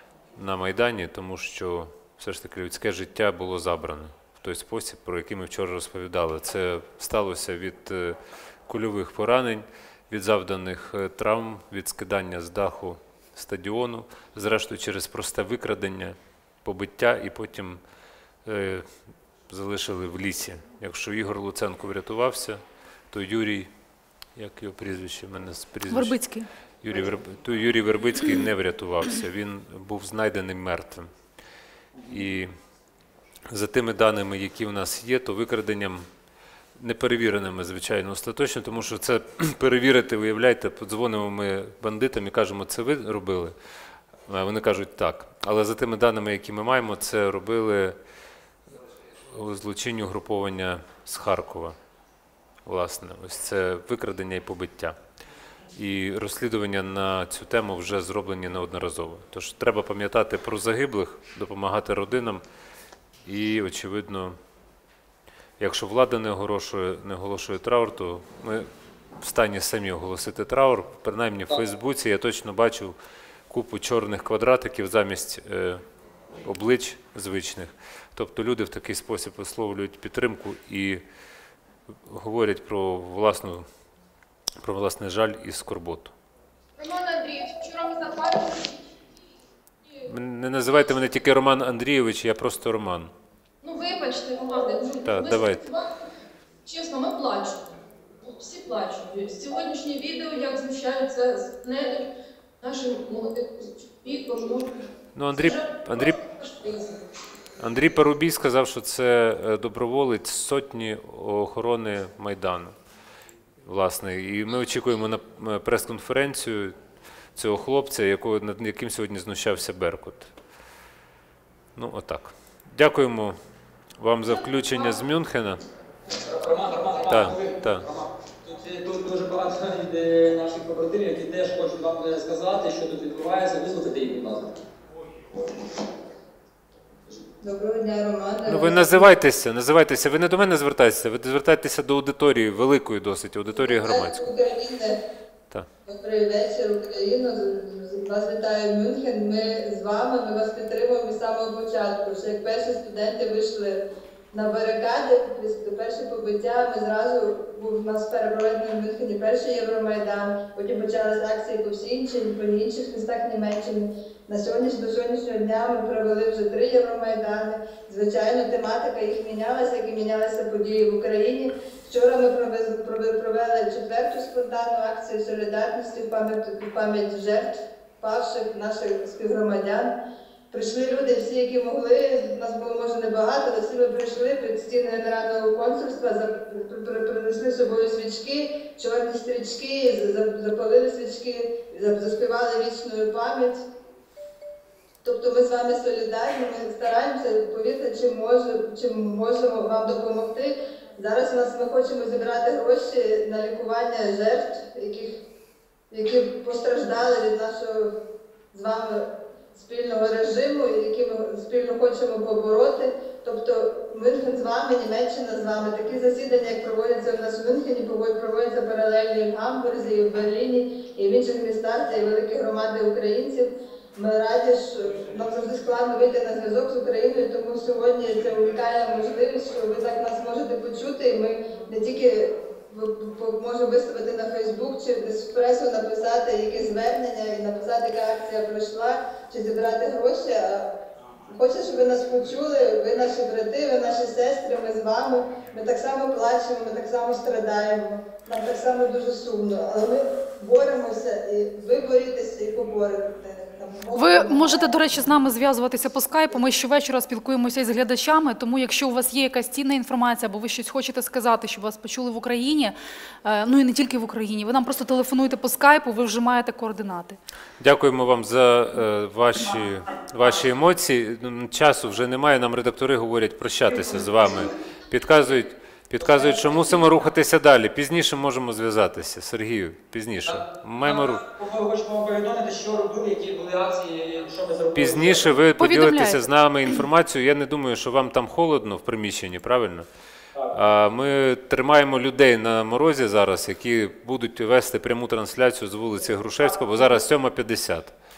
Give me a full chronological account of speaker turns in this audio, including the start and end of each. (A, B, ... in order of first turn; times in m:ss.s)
0:00.4-0:17.8 A
0:18.4-0:18.9 A
0:19.5-0:23.7 A
0:24.4-0:26.2 A
0:25.9-0:26.5 B
0:26.8-0:31.1 A
0:32.0-0:32.3 C
0:32.1-0:32.5 A
0:33.5-0:36.1 A
0:36.8-0:43.6 A
0:44.3-0:48.0 A
0:49.3-0:51.8 A
0:52.7-0:55.0 A
0:55.8-1:02.4 A
1:03.3-1:04.4 A
1:05.6-1:08.7 A
1:09.2-1:13.0 A
1:13.5-1:15.8 A
1:16.4-1:21.0 A
1:22.1-1:23.7 A
1:24.6-1:26.2 A
1:26.8-1:28.9 D
1:30.1-1:33.1 A
1:33.6-1:35.9 D
1:35.0-1:35.7 A
1:36.6-1:37.7 D
1:38.2-1:42.1 D
1:42.6-1:44.7 D
1:45.2-1:46.2 A
1:45.4-1:47.0 D
1:47.6-1:52.8 A
1:53.6-1:56.8 A
1:57.4-2:00.3 A
2:01.8-2:03.4 A
2:04.0-2:05.6 A
2:06.2-2:14.5 C
2:07.1-2:07.9 A
2:17.4-2:19.2 E
2:18.5-2:24.3 A
2:23.5-2:25.0 E
2:25.9-2:59.9 E
3:00.5-3:13.6 E
3:15.0-3:25.1 E
3:25.9-3:27.9 E
3:28.5-4:00.7 E
4:01.3-4:14.8 E
4:13.9-4:27.2 B
4:27.6-4:41.2 A
4:33.7-4:34.4 C
4:36.0-4:36.8 C
4:40.2-4:45.4 C
4:44.8-4:49.9 A
4:45.6-4:46.2 B
4:50.5-4:58.0 A
4:56.1-4:57.0 C